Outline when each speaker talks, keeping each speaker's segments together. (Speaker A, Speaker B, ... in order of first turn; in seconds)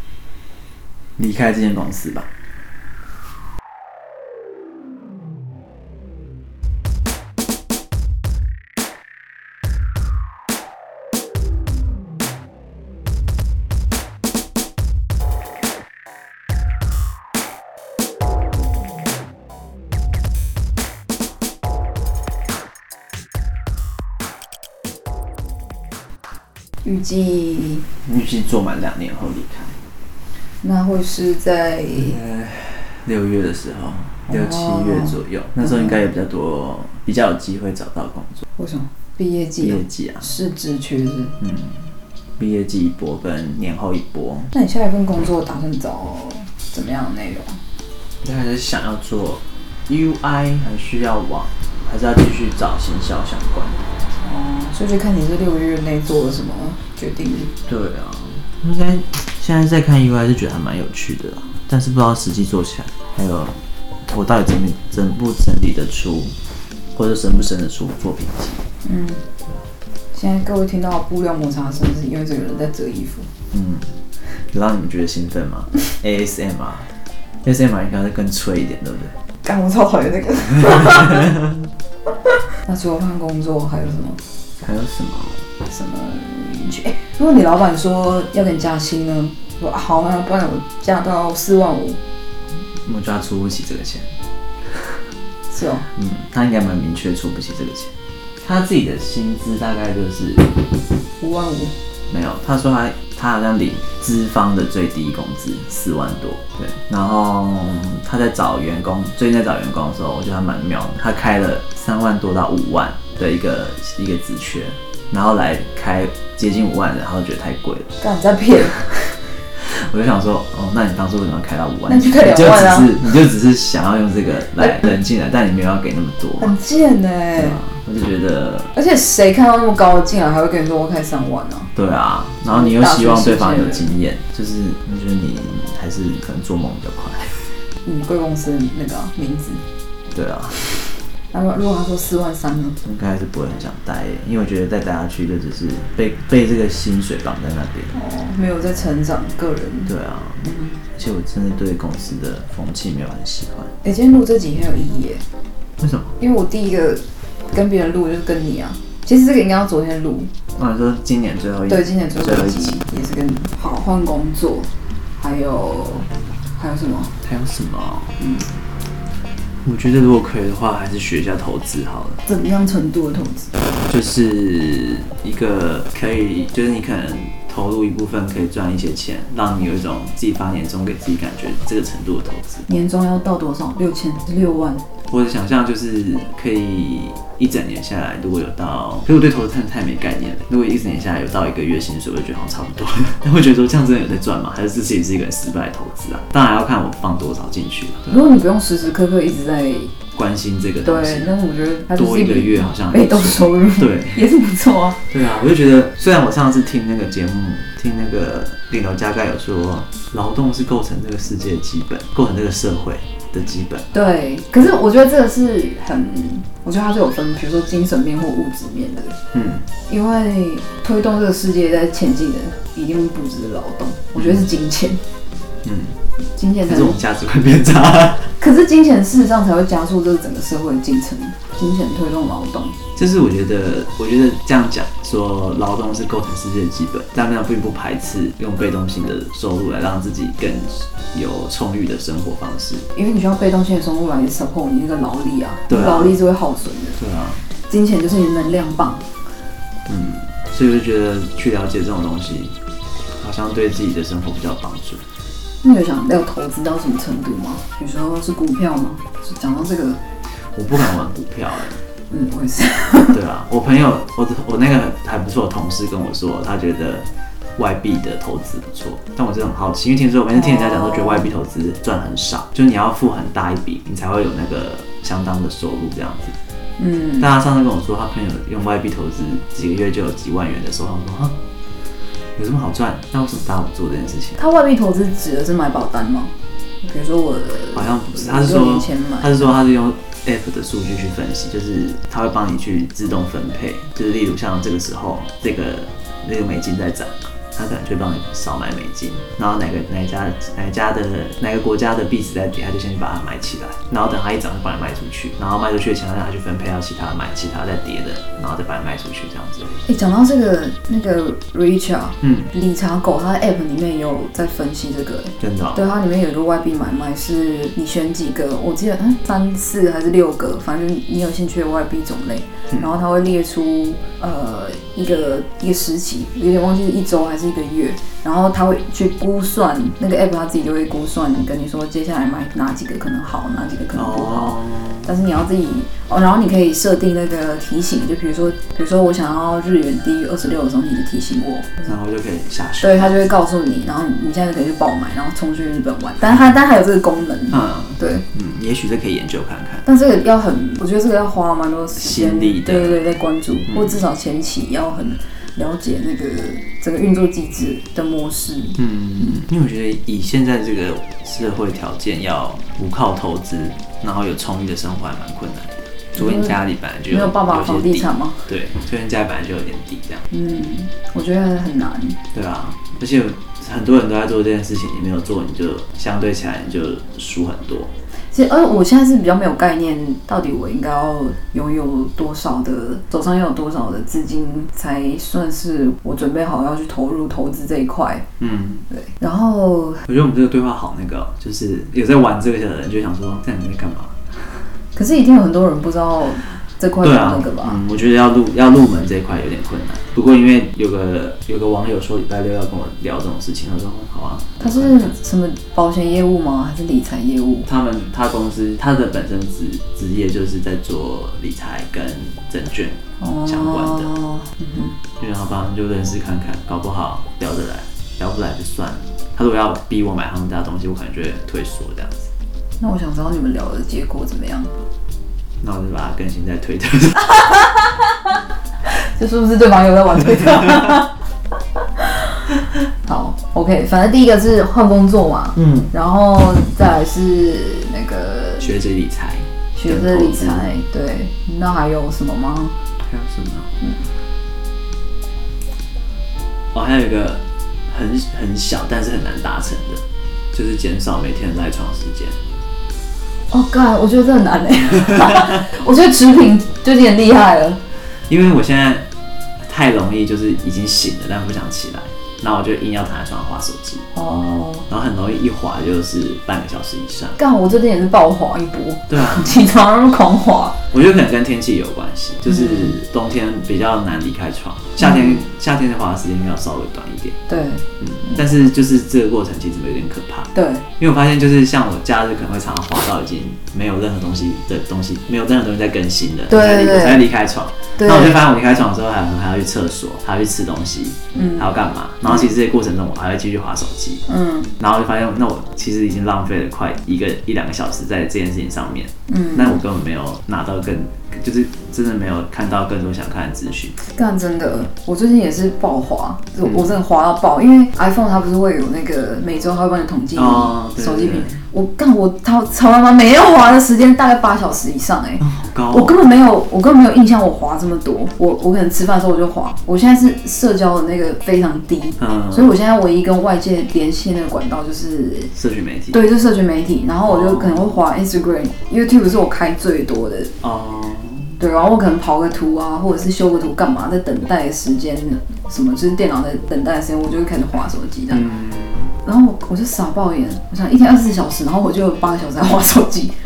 Speaker A: 1.2-2.3, 28.0-29.7, 32.0-38.5, 39.6-40.3, 41.4-41.9, 42.4-44.5, 48.2-53.8, 57.7-66.3, 67.0-68.6, 73.5-73.9, 74.5-76.9, 77.4-79.2, 80.7-81.6, 84.6-85.4, 92.8-94.1, 95.9-100.5, 102.1-117.9, 119.6-126.5, 127.4-128.7, 131.8-137.5, 140.1-140.6, 142.8-147.9, 149.9-153.7, 155.8-156.1, 160.6-162.8, 167.2-168.1, 169.6-172.2, 173.9-182.7, 185.1-198.2, 200.2-201.3, 201.9-204.2, 205.1-213.9, 219.3-219.7, 224.2-224.4, 225.6-226.0, 226.7-228.3, 233.0-242.9, 245.7-246.2, 247.0-247.4, 249.9-252.6, 253.1-255.0, 260.4-261.8, 263.1-267.1, 267.6-276.4, 277.2-281.4, 282.4-284.4, 287.7-309.8, 312.2-312.5, 315.4-315.8, 333.9-335.1, 341.9-343.3, 347.5-349.9, 352.0-353.1, 358.8-370.2, 372.3-377.9, 388.4-388.9, 390.1-394.6, 397.0-405.1, 407.7-414.1, 415.2-422.3, 425.6-427.5, 435.6-435.9, 438.6-440.7, 443.0-443.7, 446.7-452.4, 455.2-455.5, 458.3-459.1, 459.7-464.1, 464.9-467.4, 469.1-469.7, 470.9-477.4, 478.0-494.2, 494.8-504.0, 506.6-506.9, 510.4-511.6, 515.4-516.2, 522.2-522.8, 525.5-526.2, 527.2-528.0, 530.6-531.6, 538.3-539.1
Speaker B: 26.9-27.8, 30.6-32.2, 34.3-36.0, 38.6-41.4, 44.5-47.6, 54.2-57.5, 68.8-69.3, 70.1-73.3, 79.4-81.3, 82.6-84.2, 85.7-92.0, 95.5-95.9, 101.2-101.7, 118.0-119.2, 121.9-123.2, 124.6-125.0, 126.4-127.6, 128.7-131.7, 132.5-133.9, 137.8-139.6, 141.3-142.8, 147.9-149.9, 150.4-150.8, 153.8-155.2, 156.2-160.3, 161.7-167.1, 168.2-168.5, 172.2-173.5, 182.7-184.8, 198.1-199.9, 200.8-205.0, 213.9-219.2, 219.9-225.0, 226.4-227.0, 228.4-232.8, 242.9-247.0, 247.7-249.1, 255.6-260.0, 262.1-263.2, 270.3-271.3, 276.8-277.3, 284.4-289.6, 309.9-341.8, 342.8-348.2, 349.9-359.4, 366.1-366.6, 367.1-368.5, 370.3-372.2, 378.3-388.2, 388.9-390.1, 394.9-397.8, 404.6-407.7, 413.2-415.0, 422.8-424.8, 429.0-431.1, 432.0-432.5, 433.0-438.7, 439.8-442.8, 453.5-457.8, 464.1-464.9, 467.4-470.8, 472.5-473.0, 475.0-475.4, 477.5-478.4, 480.5-480.9, 486.5-487.3, 488.0-488.4, 491.3-491.7, 494.3-494.7, 499.3-499.8, 504.1-525.5, 526.1-530.5, 531.6-538.5, 539.2-543.4